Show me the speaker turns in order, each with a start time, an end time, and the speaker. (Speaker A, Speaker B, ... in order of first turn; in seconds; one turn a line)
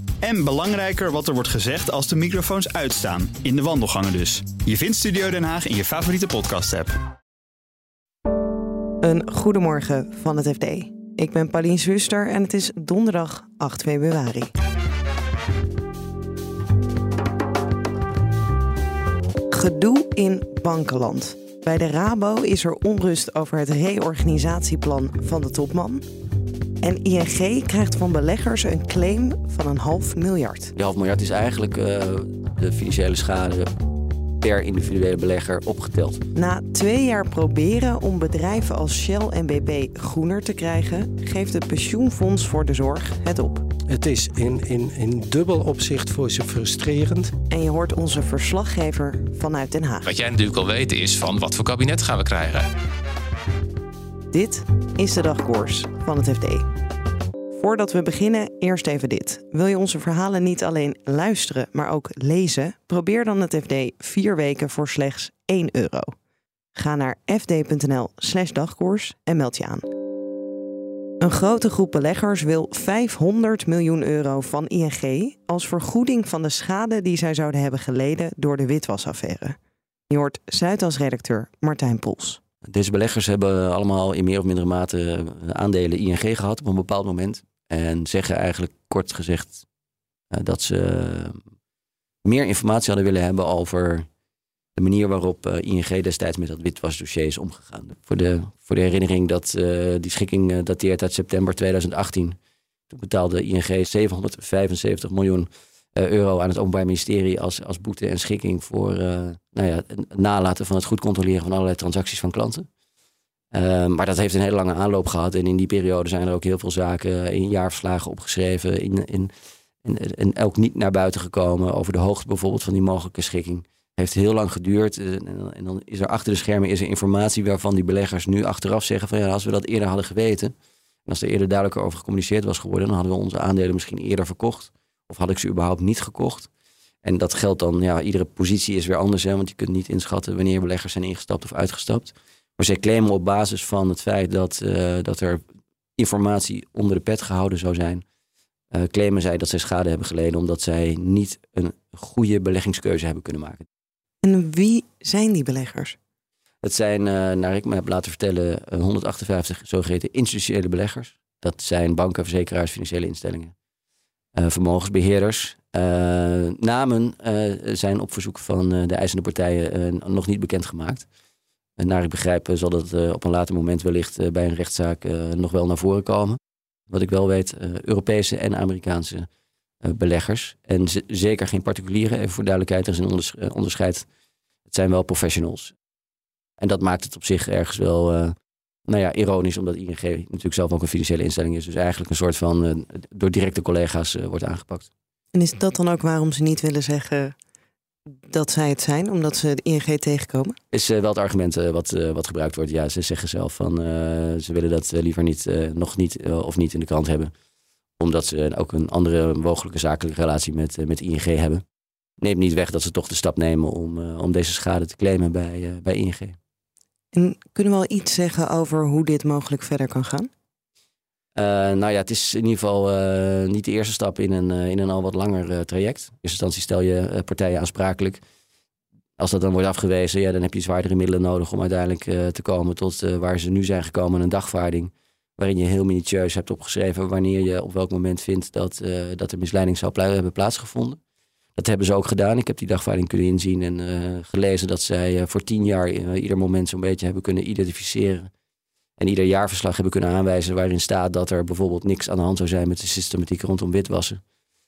Speaker A: 2.0-2.5
Speaker A: 5.0-6.9
Speaker B: 9.0-14.5
Speaker B: 19.5-26.0
Speaker B: 26.8-30.7
Speaker C: 30.8-33.7
Speaker C: 34.4-36.2
Speaker B: 36.3-43.6
Speaker D: 43.9-47.3
Speaker B: 47.5-50.1
Speaker E: 50.0-52.6
Speaker B: 54.3-56.6
Speaker B: 57.6-66.1
Speaker B: 66.7-69.8
Speaker B: 71.2-79.5
Speaker B: 80.1-82.4
Speaker C: 82.7-89.6
Speaker C: 90.3-91.4
Speaker C: 92.2-94.1
Speaker C: 94.8-102.3
Speaker C: 102.9-112.7
Speaker C: 113.5-119.3
Speaker C: 119.8-130.5
Speaker C: 131.1-136.5
Speaker C: 137.0-145.4
Speaker C: 146.0-148.0
Speaker C: 148.7-153.6
Speaker B: 154.2-155.9
Speaker C: 156.6-163.5
Speaker C: 164.4-171.1
Speaker C: 171.8-176.4
Speaker C: 176.9-179.3
Speaker C: 179.8-184.1
Speaker C: 184.7-185.7
Speaker C: 186.6-188.3
Speaker C: 188.9-194.9
Speaker B: 195.3-197.3
Speaker B: 198.3-200.5
Speaker C: 200.7-207.3
Speaker C: 208.0-211.6
Speaker C: 212.2-216.3
Speaker B: 217.1-220.3
Speaker C: 221.4-228.2
Speaker C: 229.2-241.0
Speaker C: 241.6-248.3
Speaker C: 249.0-254.2